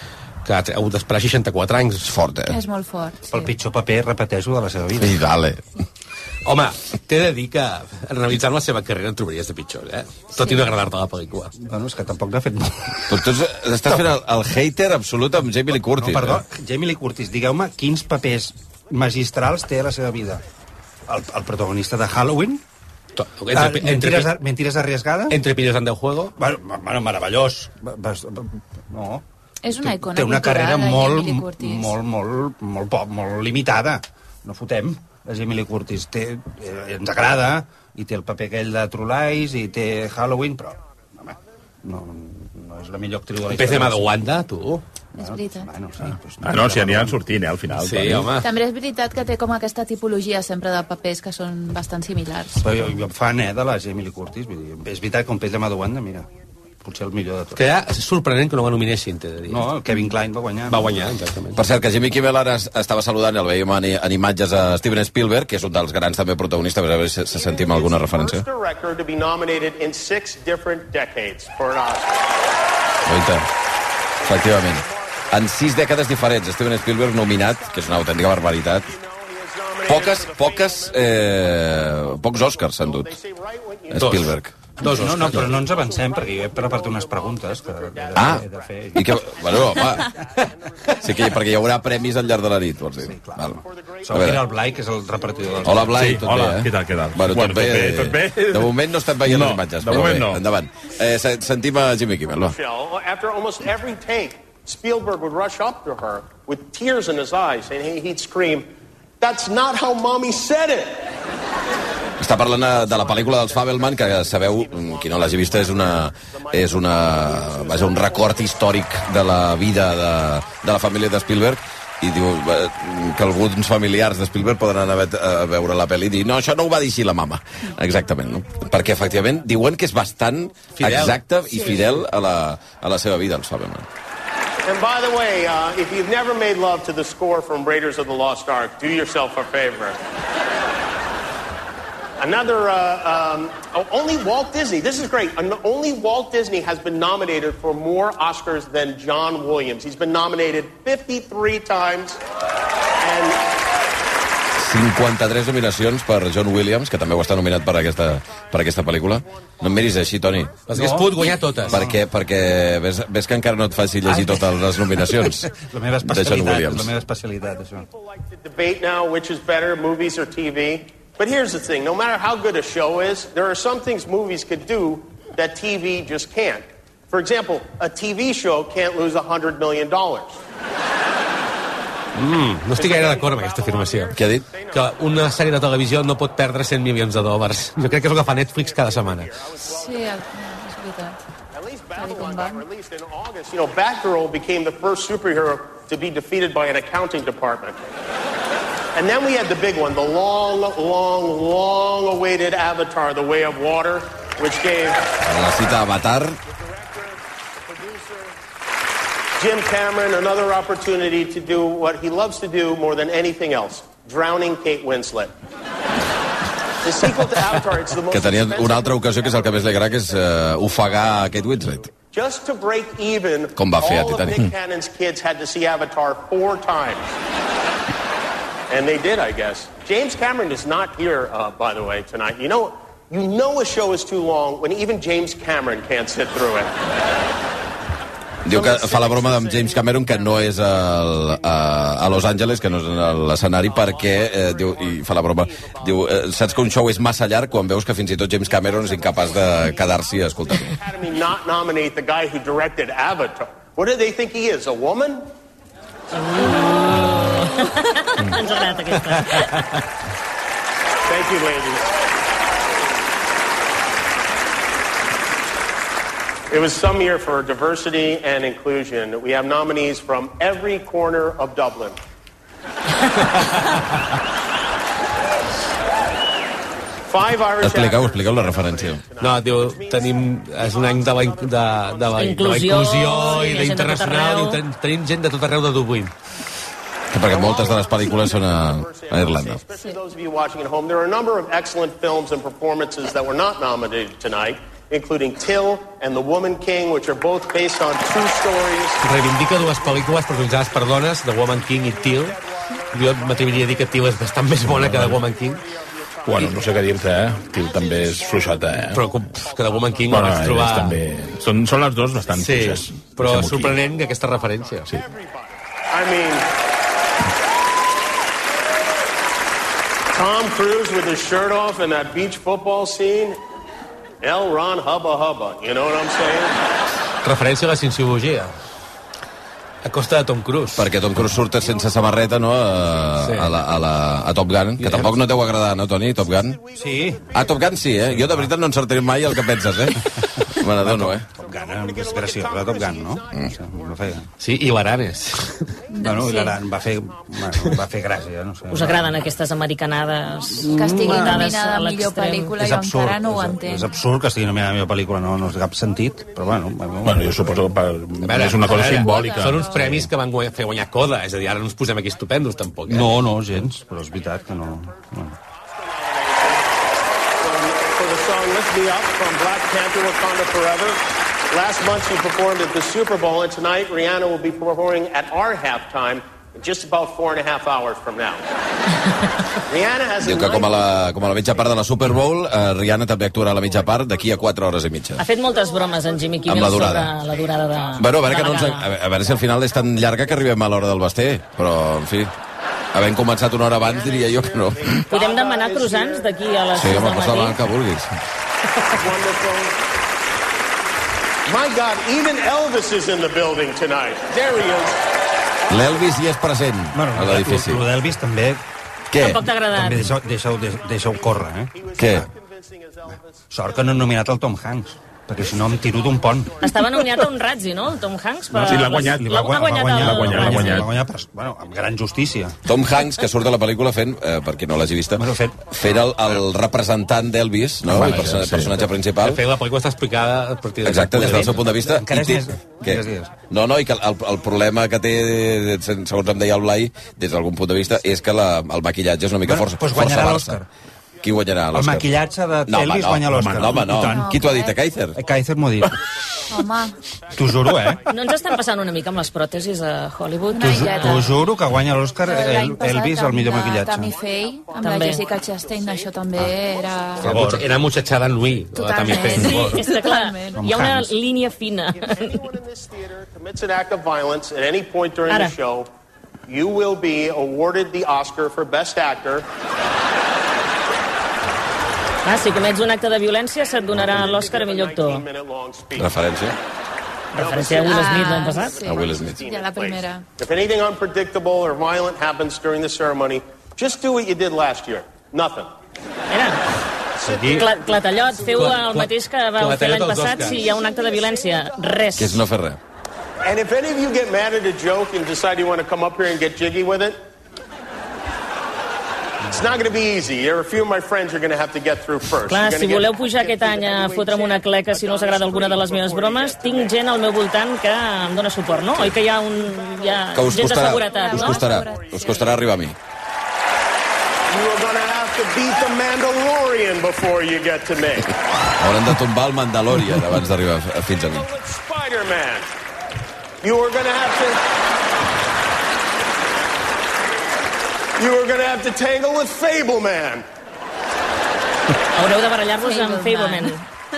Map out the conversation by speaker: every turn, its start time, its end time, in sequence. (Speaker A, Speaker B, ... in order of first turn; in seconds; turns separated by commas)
Speaker A: 0.4-2.2, Speaker B: 2.1-2.6, Speaker C: 2.5-3.5, Speaker D: 3.3-5.2, Speaker B: 5.0-5.6, Speaker A: 6.5-11.5, Speaker D: 11.6-13.2, Speaker B: 13.1-16.4, Speaker D: 15.9-20.4, Speaker D: 21.1-22.6, Speaker A: 23.2-24.3, Speaker D: 23.5-25.4, Speaker A: 25.3-26.4, Speaker D: 26.4-29.2, Speaker C: 29.6-32.0, Speaker D: 29.8-44.2, Speaker A: 43.5-44.9, Speaker C: 45.2-45.7, Speaker D: 45.2-47.2, Speaker E: 46.4-48.3, Speaker A: 47.7-48.5, Speaker C: 48.4-52.5, Speaker D: 52.6-56.3, Speaker D: 56.8-57.6, Speaker A: 57.5-59.7, Speaker D: 59.5-60.9, Speaker A: 60.7-61.6, Speaker B: 61.5-68.5, Speaker F: 67.3-72.2, Speaker B: 73.1-73.5, Speaker F: 74.2-75.4, Speaker B: 74.2-78.9, Speaker F: 77.2-84.3, Speaker B: 79.9-83.1, Speaker B: 83.9-84.5, Speaker A: 84.0-85.6, Speaker D: 84.8-89.2, Speaker F: 84.8-92.4, Speaker B: 88.1-90.1, Speaker B: 91.0-93.6, Speaker D: 93.0-96.0, Speaker F: 93.5-95.9, Speaker B: 94.1-94.5, Speaker B: 95.6-102.6, Speaker E: 95.9-100.4, Speaker F: 102.4-108.7, Speaker F: 109.2-111.1, Speaker B: 112.2-133.9, Speaker F: 112.5-121.5, Speaker F: 128.0-129.4, Speaker A: 130.8-131.8, Speaker F: 134.7-140.0, Speaker F: 142.2-152.2, Speaker F: 153.0-153.5, Speaker B: 154.6-160.6, Speaker F: 158.8-160.6, Speaker A: 160.7-161.8, Speaker D: 160.7-162.0, Speaker B: 161.7-165.5, Speaker D: 164.1-167.9, Speaker B: 166.0-166.9, Speaker F: 167.5-180.4, Speaker A: 182.2-184.2, Speaker F: 182.8-185.5, Speaker B: 184.2-184.5, Speaker A: 184.7-189.3, Speaker F: 188.1-190.0, Speaker C: 189.6-191.2, Speaker F: 191.5-197.8, Speaker C: 192.0-192.6, Speaker F: 198.9-205.1, Speaker B: 205.2-206.4, Speaker F: 206.5-208.4, Speaker F: 209.4-215.3, Speaker F: 216.8-220.3, Speaker B: 218.1-221.9, Speaker F: 222.1-227.1, Speaker B: 223.6-224.4, Speaker F: 228.7-236.8, Speaker B: 238.4-250.8, Speaker F: 238.5-247.8, Speaker F: 248.4-255.3, Speaker G: 256.2-259.6, Speaker A: 258.9-259.8, Speaker F: 261.1-261.9, Speaker F: 266.5-272.0, Speaker A: 273.4-273.8, Speaker F: 277.1-282.6, Speaker B: 277.6-279.0, Speaker A: 279.2-286.1, Speaker G: 282.2-284.6, Speaker B: 287.1-289.6, Speaker F: 287.2-300.7, Speaker A: 299.0-302.4, Speaker F: 301.4-310.6, Speaker A: 302.9-305.6, Speaker E: 304.7-305.2, Speaker E: 306.2-309.1, Speaker A: 308.9-311.0, Speaker E: 310.1-313.8, Speaker F: 311.8-312.7, Speaker A: 312.3-314.9, Speaker F: 313.6-316.5, Speaker F: 320.1-323.4, Speaker F: 324.2-326.6, Speaker A: 327.2-328.5, Speaker A: 329.8-330.9, Speaker B: 330.8-336.6, Speaker F: 331.3-333.2, Speaker A: 333.2-333.6, Speaker A: 334.8-335.3, Speaker F: 335.7-339.4, Speaker D: 336.8-337.5, Speaker B: 337.3-341.3, Speaker D: 338.1-338.5, Speaker D: 340.6-344.3, Speaker F: 341.4-344.2, Speaker A: 344.4-345.6, Speaker C: 345.9-346.6, Speaker D: 346.0-349.3, Speaker G: 348.7-352.6, Speaker C: 350.6-353.9, Speaker A: 350.6-351.3, Speaker D: 352.6-357.7, Speaker F: 356.1-357.0, Speaker E: 357.0-359.8, Speaker A: 358.2-363.1, Speaker C: 358.9-359.9, Speaker D: 362.9-365.4, Speaker F: 363.9-366.8, Speaker F: 367.4-378.4, Speaker F: 379.7-381.4, Speaker B: 380.2-385.2, Speaker G: 385.2-388.9, Speaker F: 385.8-386.4, Speaker B: 386.5-387.1, Speaker F: 387.3-388.1, Speaker B: 388.0-392.3, Speaker B: 392.9-395.0, Speaker F: 393.6-396.4, Speaker G: 395.1-397.6, Speaker B: 396.8-398.1, Speaker F: 398.9-399.8, Speaker F: 401.5-405.0, Speaker B: 405.7-407.9, Speaker D: 406.9-408.6, Speaker B: 409.1-409.4, Speaker G: 409.2-410.1, Speaker D: 409.7-412.3, Speaker F: 410.3-414.1, Speaker B: 412.0-412.3, Speaker D: 413.5-416.6, Speaker F: 415.4-418.0, Speaker G: 416.6-420.8, Speaker D: 418.5-422.6, Speaker E: 418.6-420.9, Speaker B: 422.6-429.4, Speaker D: 425.1-425.6, Speaker A: 427.9-431.8, Speaker E: 427.9-428.7, Speaker B: 430.8-440.6, Speaker D: 431.6-433.3, Speaker D: 439.4-440.7, Speaker B: 441.2-442.1, Speaker D: 441.7-444.4, Speaker B: 442.7-445.2, Speaker E: 443.3-443.8, Speaker C: 443.9-444.8, Speaker D: 445.1-445.9, Speaker C: 446.5-447.0, Speaker D: 447.4-448.0, Speaker G: 448.1-451.3, Speaker C: 450.5-451.3, Speaker D: 450.6-454.2, Speaker F: 452.1-453.0, Speaker C: 452.2-457.3, Speaker F: 453.8-458.3, Speaker G: 454.8-455.2, Speaker D: 457.2-457.6, Speaker A: 457.3-459.8, Speaker C: 458.7-460.6, Speaker G: 459.0-462.4, Speaker D: 460.5-461.1, Speaker F: 461.9-465.9, Speaker F: 466.5-469.5, Speaker G: 472.2-475.2, Speaker F: 473.7-476.2, Speaker B: 476.0-476.6, Speaker G: 477.3-478.8, Speaker F: 477.3-485.7, Speaker C: 477.8-480.2, Speaker B: 478.9-479.4, Speaker G: 486.3-486.6, Speaker A: 487.2-487.7, Speaker G: 487.2-492.4, Speaker A: 488.4-490.7, Speaker B: 492.2-492.8, Speaker F: 493.4-497.2, Speaker F: 499.5-507.0, Speaker G: 502.5-511.8, Speaker F: 508.6-510.5, Speaker B: 510.3-513.0, Speaker C: 510.8-512.4, Speaker F: 511.0-512.6, Speaker F: 514.5-518.4, Speaker B: 518.7-521.5, Speaker F: 521.3-522.7, Speaker F: 523.6-524.6, Speaker F: 528.2-530.5, Speaker G: 532.2-533.8, Speaker C: 532.8-533.8